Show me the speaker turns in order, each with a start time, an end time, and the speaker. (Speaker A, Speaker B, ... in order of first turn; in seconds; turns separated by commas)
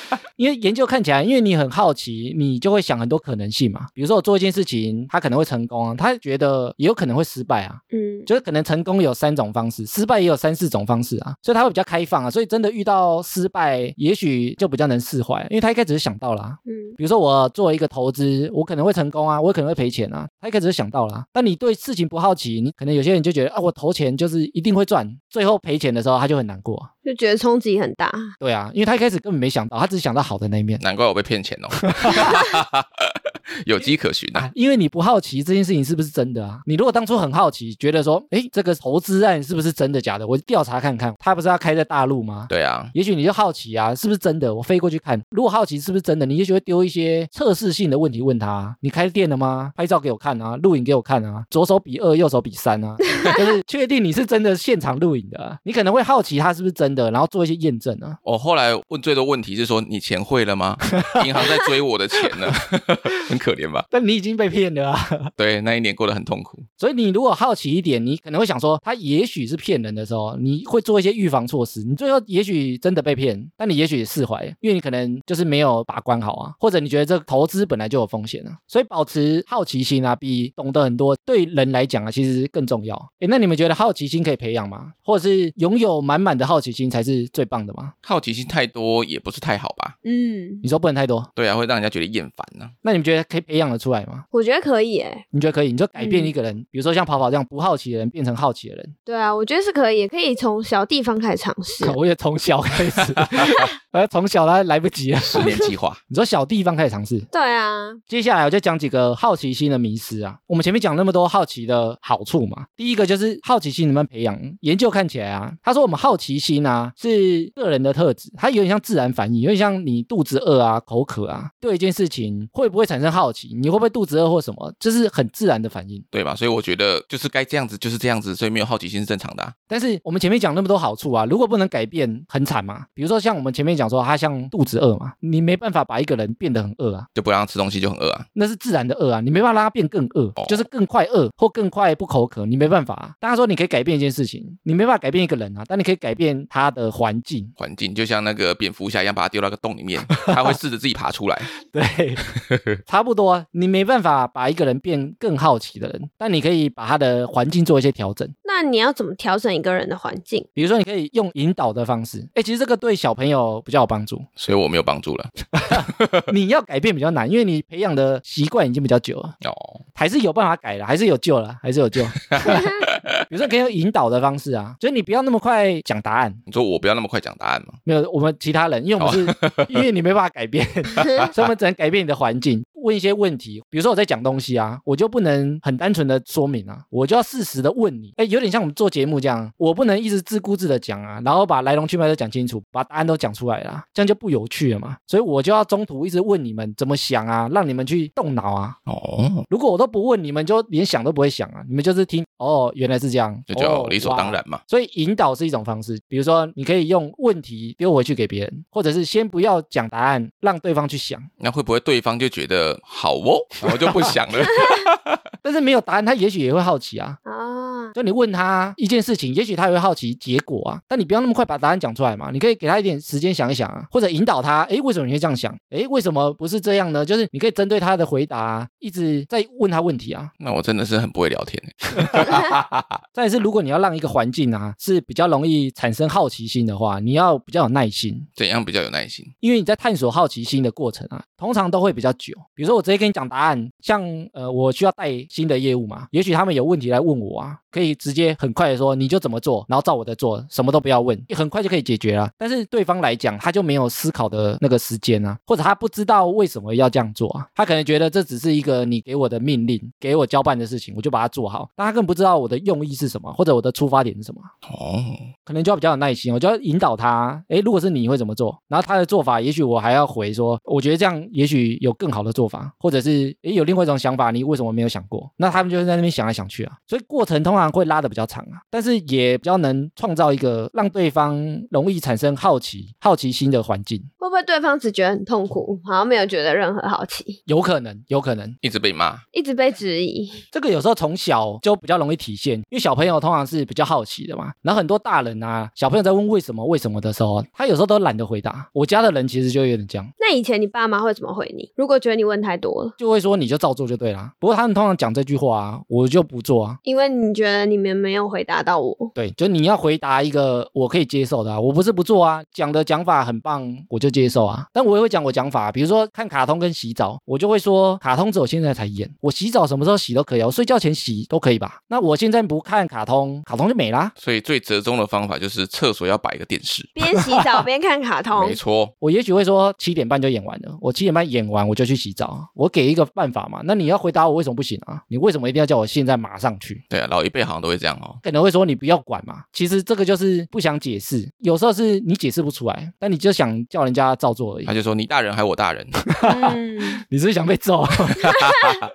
Speaker A: 0.4-26.9, Speaker B: 7.9-8.3, Speaker B: 16.7-17.0, Speaker B: 27.1-28.3, Speaker A: 28.4-30.8, Speaker C: 30.8-34.5, Speaker A: 31.9-32.4, Speaker A: 34.4-58.2, Speaker C: 42.5-42.9, Speaker C: 58.2-63.9, Speaker A: 63.9-65.3, Speaker C: 65.4-66.7, Speaker A: 66.8-87.9, Speaker C: 88.0-90.0, Speaker B: 90.0-90.6, Speaker A: 90.6-91.3, Speaker C: 91.4-92.7, Speaker A: 92.8-94.2, Speaker B: 94.3-95.2, Speaker A: 95.3-98.9, Speaker B: 96.0-96.3, Speaker B: 99.1-102.0, Speaker A: 101.8-105.5, Speaker C: 105.2-106.0, Speaker A: 106.1-107.3, Speaker B: 107.3-108.0, Speaker A: 108.1-126.0, Speaker C: 126.1-129.5, Speaker A: 129.7-137.1, Speaker C: 137.2-138.3, Speaker A: 138.3-147.5, Speaker C: 140.4-140.7, Speaker C: 147.6-151.5, Speaker A: 151.7-152.3, Speaker A: 152.8-158.3, Speaker B: 158.4-160.5, Speaker A: 160.6-164.3, Speaker C: 164.4-166.2, Speaker A: 165.6-169.3, Speaker C: 169.4-169.8, Speaker A: 169.9-176.4, Speaker C: 172.3-173.1, Speaker C: 176.5-177.8, Speaker A: 177.8-198.8, Speaker C: 179.0-179.8, Speaker C: 181.0-181.5, Speaker C: 198.9-199.5, Speaker A: 199.5-211.3, Speaker C: 203.5-204.6, Speaker C: 211.4-215.2, Speaker A: 213.8-214.1, Speaker A: 215.4-217.2, Speaker B: 217.2-217.9, Speaker A: 217.9-230.3, Speaker C: 230.4-232.9, Speaker A: 232.1-232.4, Speaker A: 233.1-238.3, Speaker C: 238.4-239.3, Speaker A: 239.4-264.5, Speaker C: 264.6-265.3, Speaker A: 265.4-284.1, Speaker B: 284.2-287.4, Speaker A: 287.5-288.6, Speaker C: 288.6-289.2, Speaker B: 289.3-290.4, Speaker A: 290.5-300.1, Speaker B: 300.2-302.9, Speaker A: 303.0-306.8, Speaker B: 306.9-309.1, Speaker A: 309.2-324.1, Speaker C: 324.2-326.9, Speaker B: 327.0-328.6, Speaker C: 328.3-328.9, Speaker A: 329.0-336.8, Speaker C: 336.9-338.2, Speaker A: 338.2-344.7, Speaker C: 344.7-345.9, Speaker A: 346.1-348.6, Speaker B: 346.2-347.0, Speaker C: 348.2-348.8